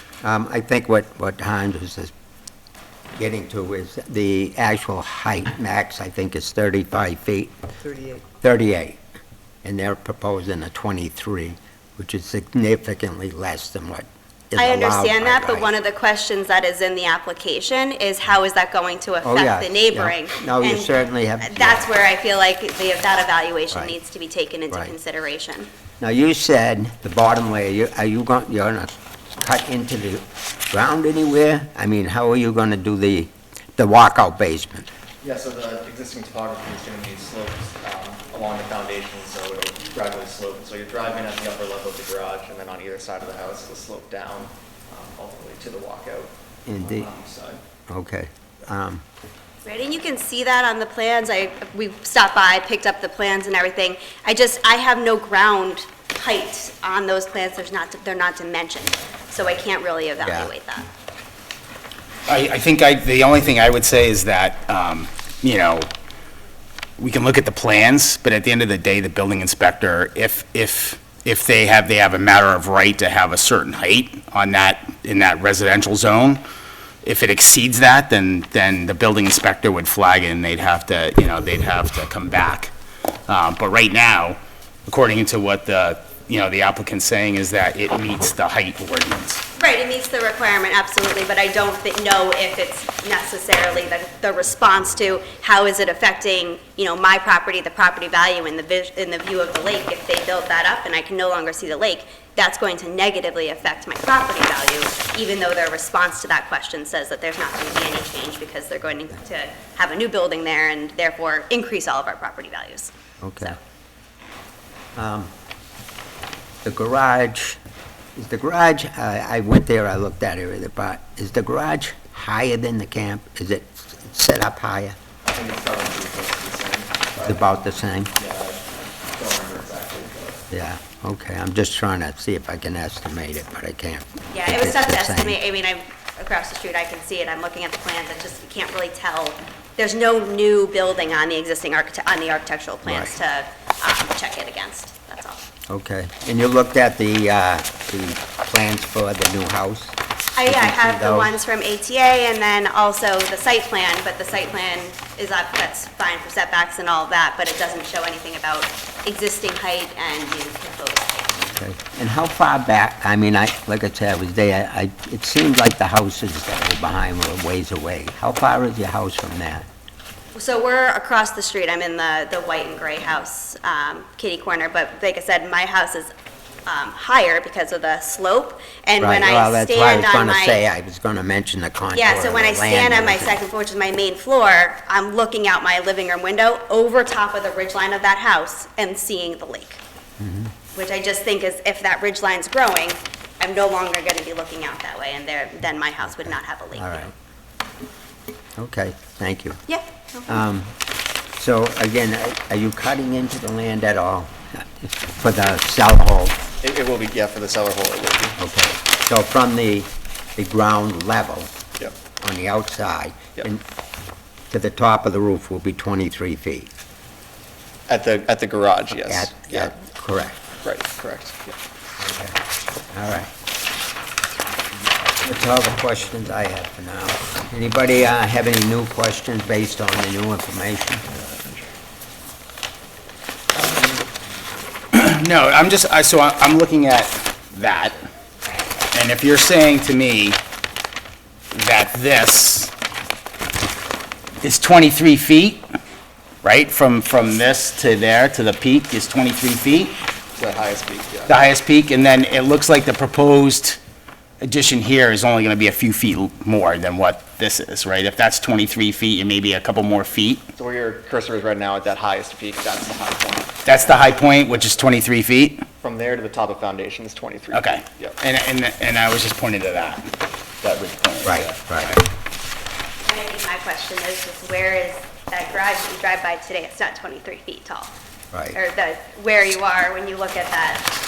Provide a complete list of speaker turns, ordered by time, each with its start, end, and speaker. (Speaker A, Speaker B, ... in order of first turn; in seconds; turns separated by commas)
Speaker A: 0.2-2.1, Speaker A: 3.2-9.0, Speaker A: 9.6-15.8, Speaker B: 14.6-25.7, Speaker A: 19.2-21.9, Speaker A: 26.0-34.9, Speaker C: 35.2-46.3, Speaker A: 46.7-47.1, Speaker C: 46.8-47.6, Speaker A: 47.9-49.0, Speaker B: 49.6-60.9, Speaker A: 60.2-60.5, Speaker D: 62.3-65.9, Speaker D: 67.0-76.4, Speaker D: 77.0-82.7, Speaker D: 83.3-89.4, Speaker B: 89.6-113.6, Speaker A: 113.2-113.6, Speaker A: 115.0-115.3, Speaker A: 116.6-117.6, Speaker A: 118.2-125.0, Speaker C: 125.3-127.4, Speaker A: 127.2-128.1, Speaker C: 128.2-130.4, Speaker A: 130.5-135.4, Speaker B: 134.3-145.5, Speaker A: 142.9-143.1, Speaker A: 145.7-151.3, Speaker B: 150.4-161.3, Speaker A: 161.5-169.7, Speaker B: 170.3-176.1, Speaker B: 176.7-180.6, Speaker A: 179.0-183.4, Speaker B: 181.9-189.8, Speaker A: 190.2-190.5, Speaker B: 190.7-197.1, Speaker A: 196.2-197.1, Speaker A: 198.6-199.6, Speaker B: 199.7-200.4, Speaker A: 200.3-200.7, Speaker A: 201.4-206.4, Speaker C: 206.6-208.4, Speaker A: 208.4-211.5, Speaker A: 212.2-213.6, Speaker A: 214.5-216.7, Speaker C: 217.9-219.7, Speaker A: 219.1-220.4, Speaker C: 220.6-221.6, Speaker A: 222.0-222.4, Speaker A: 222.9-223.3, Speaker A: 225.2-231.1, Speaker C: 231.1-231.8, Speaker C: 233.5-234.3, Speaker D: 234.9-238.1, Speaker D: 238.9-240.4, Speaker D: 241.5-242.7, Speaker D: 244.4-245.7, Speaker D: 246.4-250.0, Speaker C: 250.4-251.4, Speaker D: 251.3-253.8, Speaker D: 254.4-260.4, Speaker C: 260.6-264.9, Speaker D: 263.6-265.6, Speaker C: 265.8-268.2, Speaker D: 267.5-270.1, Speaker D: 270.6-272.0, Speaker A: 271.2-272.0, Speaker B: 273.0-277.9, Speaker A: 278.3-278.6, Speaker B: 278.5-280.9